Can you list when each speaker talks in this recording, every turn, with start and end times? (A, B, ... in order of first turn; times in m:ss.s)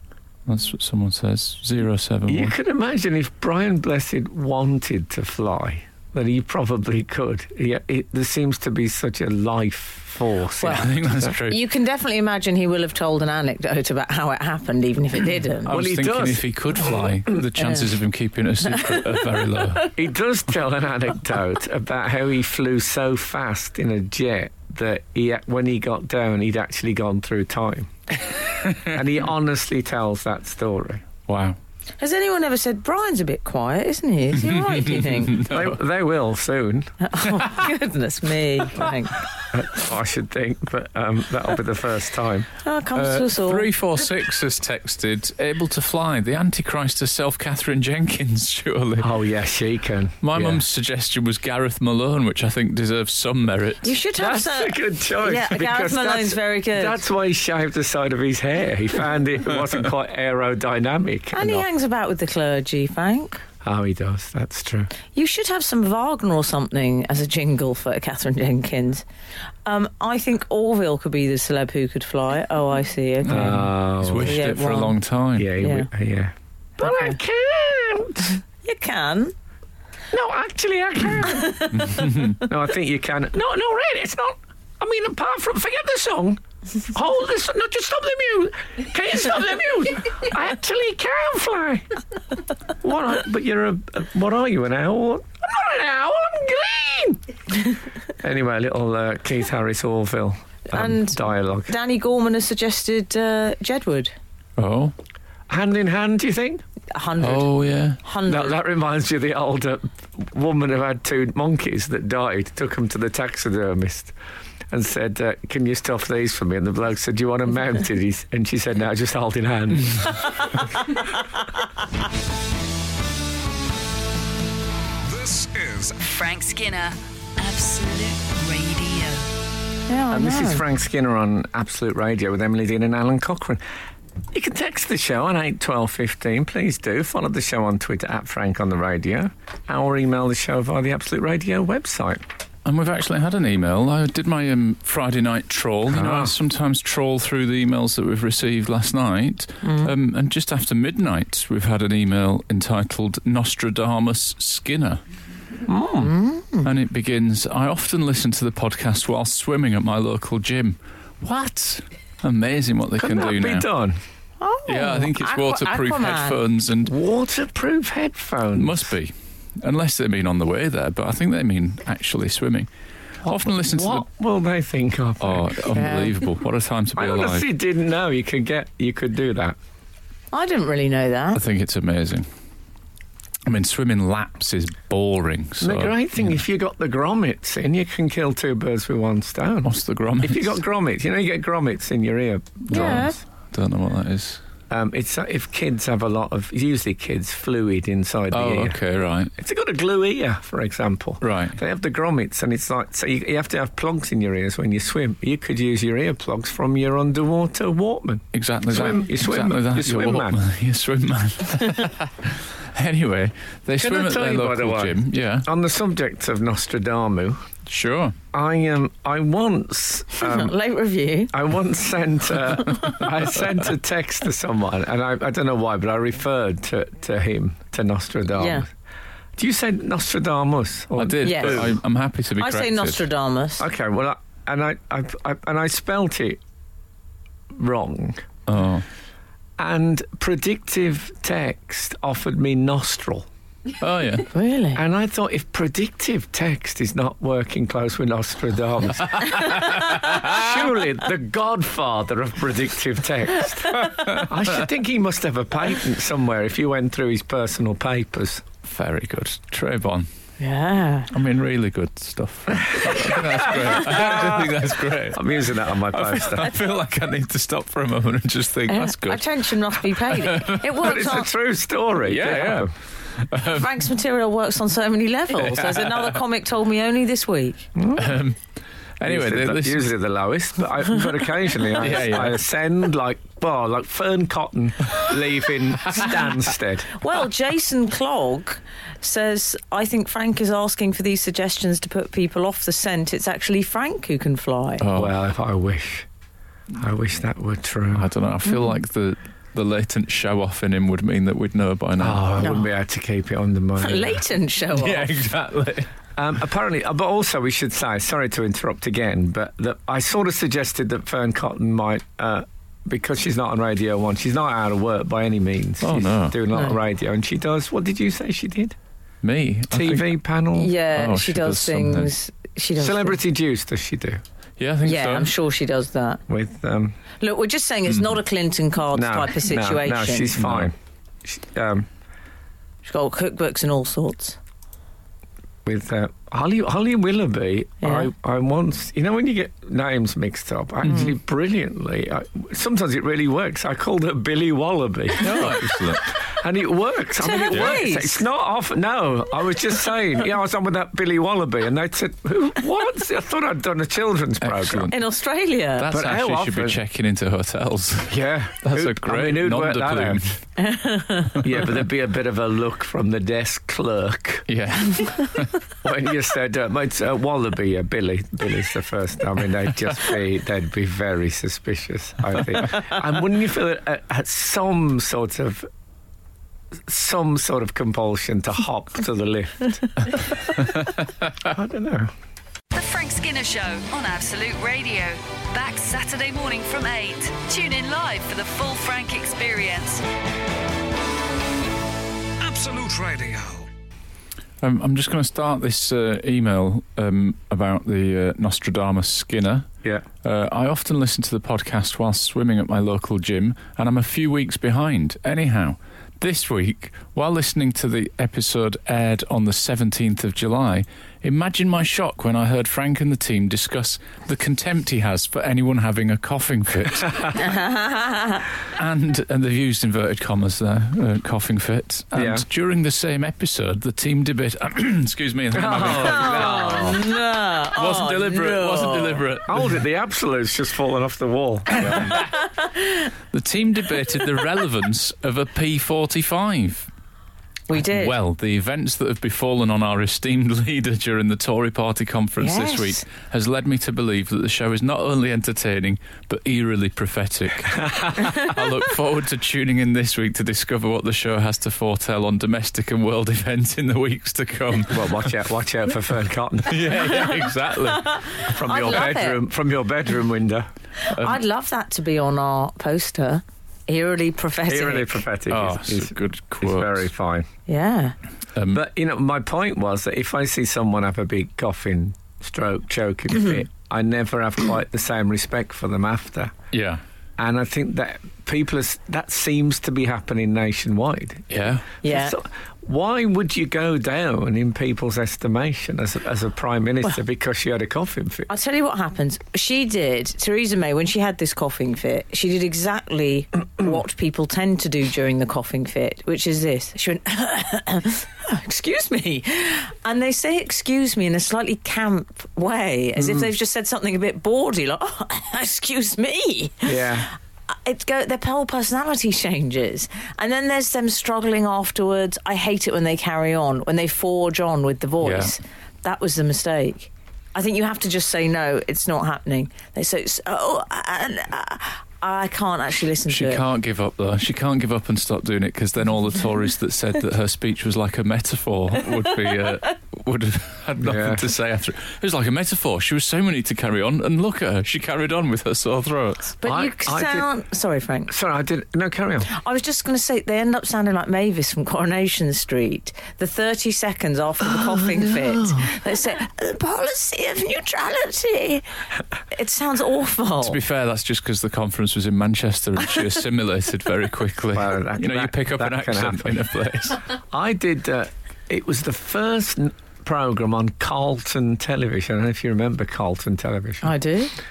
0:00.5-0:02.5 A
0:02.3-0:11.3 B
0:10.6-0:10.9 C
0:10.6-0:11.6 A
0:11.4-0:15.7 C
0:15.6-0:19.9 A
0:15.7-0:16.4 B
0:18.9-0:19.2 C
0:19.9-0:27.9 B
0:28.7-0:31.0 B
0:31.3-0:31.6 A
0:32.0-0:35.5 C
0:34.4-0:35.8 A
0:35.4-0:36.9 B
0:37.0-0:39.2 C
0:39.4-0:42.5 B
0:42.6-0:43.7 C
0:42.9-0:49.1 A
0:49.0-0:50.6 B
0:50.2-0:53.9 A
0:53.8-0:57.0 C
0:54.2-1:01.7 B
1:01.3-1:03.4 C
1:03.6-1:04.9 B
1:05.1-1:09.0 C
1:09.6-1:13.6 C
1:13.2-1:15.5 A
1:13.3-1:14.4 B
1:14.2-1:15.0 C
1:15.4-1:18.4 B
1:15.6-1:15.9 C
1:16.8-1:17.2 C
1:18.6-1:19.3 C
1:20.1-1:21.7 B
1:21.3-1:22.1 C
1:21.7-1:22.4 A
1:22.3-1:31.8 B
1:32.8-1:37.2 B
1:38.2-1:41.7 B
1:40.7-1:44.1 C
1:44.6-1:44.9 A
1:45.5-1:46.6 B
1:46.9-1:48.6 C
1:47.2-1:48.0 A
1:48.3-1:54.1 B
1:54.7-2:00.5 B
2:05.0-2:06.0 D
2:06.0-2:09.3 E
2:09.9-2:10.6 C
2:10.1-2:13.6 B
2:14.3-2:22.2 B
2:22.6-2:35.0 A
2:25.9-2:26.3 B
2:29.6-2:29.9 C
2:35.7-2:36.1 B
2:36.0-2:36.7 C
2:36.6-2:43.7 A
2:43.0-2:44.0 B
2:44.4-2:46.4 C
2:44.7-2:46.9 A
2:46.8-2:48.9 B
2:48.6-2:52.7 A
2:53.2-2:54.0 A
2:53.2-2:55.6 B
2:55.2-2:57.4 A
2:55.7-2:56.2 C
2:57.0-2:59.6 B
3:00.3-3:01.4 C
3:01.3-3:02.3 A
3:03.4-3:06.4 A
3:05.6-3:13.2 B
3:09.6-3:10.6 A
3:12.7-3:14.4 A
3:12.7-3:13.2 C
3:14.7-3:18.8 B
3:18.3-3:19.3 A
3:19.4-3:30.4 B
3:21.2-3:21.6 A
3:28.3-3:35.5 A
3:33.8-3:37.4 B
3:37.7-3:38.2 A
3:38.3-3:40.5 B
3:40.2-3:41.3 C
3:41.3-3:48.7 B
3:48.4-3:48.6 C
3:49.4-3:51.8 B
3:51.0-3:53.0 A
3:51.2-3:51.7 C
3:52.4-3:53.7 C
3:53.6-3:56.4 B
3:57.5-3:58.2 B
3:58.5-3:58.8 A
3:59.6-4:03.3 B
4:03.8-4:04.3 A
4:04.3-4:04.8 C
4:04.7-4:18.4 B
4:09.2-4:10.4 A
4:09.6-4:10.1 C
4:13.8-4:14.3 A
4:18.6-4:20.1 A
4:20.4-4:21.1 C
4:21.1-4:25.4 A
4:22.6-4:26.6 B
4:25.9-4:31.1 A
4:28.7-4:31.3 C
4:30.7-4:32.7 B
4:32.0-4:33.7 A
4:33.4-4:37.7 C
4:35.4-4:36.2 A
4:37.8-4:38.2 B
4:38.0-4:38.4 A
4:39.0-4:39.9 A
4:39.0-4:46.9 B
4:41.8-4:42.4 A
4:46.9-4:54.8 C
4:54.8-4:55.1 A
4:54.9-4:56.1 B
4:56.7-4:58.1 B
4:57.9-5:02.3 A
5:02.0-5:04.2 B
5:02.4-5:02.6 C
5:03.8-5:05.1 C
5:04.7-5:05.9 A
5:06.2-5:18.8 B
5:15.8-5:16.4 A
5:19.2-5:20.2 A
5:19.7-5:20.7 B
5:20.5-5:23.2 C
5:20.9-5:22.1 A
5:22.8-5:24.2 B
5:24.6-5:25.3 A
5:24.8-5:26.2 C
5:26.3-5:27.0 B
5:27.2-5:30.4 C
5:27.9-5:28.2 A
5:28.9-5:31.9 B
5:30.4-5:30.7 A
5:32.8-5:34.4 C
5:35.6-5:54.9 B
5:37.8-5:38.1 C
5:45.2-5:46.1 A
5:47.2-5:48.2 C
5:47.5-5:47.8 A
5:54.4-5:55.0 A
5:54.9-5:55.9 C
5:55.8-6:00.4 A
5:55.9-5:56.8 B
5:58.1-6:00.4 B
6:00.6-6:01.4 C
6:01.4-6:04.5 B
6:04.5-6:05.6 A
6:05.8-6:15.7 B
6:16.9-6:20.2 B
6:20.6-6:20.9 A
6:21.4-6:22.1 B
6:22.7-6:30.0 E
6:32.4-6:33.7 D
6:34.6-6:39.7 A
6:40.2-6:57.5 A
6:57.4-6:58.4 C
6:58.7-7:07.0 A
7:02.1-7:02.4 B
7:05.5-7:07.0 B
7:05.8-7:09.2 C
7:07.7-7:09.7 A
7:09.4-7:12.2 B
7:11.7-7:12.3 A
7:12.1-7:13.0 C
7:13.3-7:16.9 A
7:17.7-7:18.2 C
7:17.7-7:35.3 A
7:22.4-7:23.0 C
7:27.8-7:28.1 B
7:34.9-7:37.1 B
7:36.7-7:38.2 A
7:37.7-7:39.4 C
7:38.4-7:40.7 B
7:41.0-7:45.2 C
7:41.1-7:41.4 A
7:44.6-7:47.5 B
7:45.5-7:47.0 A
7:47.7-7:48.2 C
7:48.6-7:48.8 A
7:48.7-7:56.5 B
7:56.7-7:57.0 A
7:57.4-8:08.5 B
8:01.5-8:01.9 A
8:02.0-8:02.3 C
8:08.5-8:27.2 C
8:23.2-8:23.5 B
8:26.8-8:27.3 B
8:27.8-8:43.6 C
8:35.2-8:35.5 A
8:43.3-8:56.6 A
8:51.0-8:51.5 B
8:56.6-8:58.3 C
8:56.6-8:57.5 B
8:58.3-8:59.5 B
8:59.5-9:08.8 C
9:04.8-9:06.0 B
9:09.5-9:10.8 C
9:10.6-9:17.2 A
9:14.7-9:16.6 B
9:17.5-9:24.1 B
9:24.0-9:24.5 C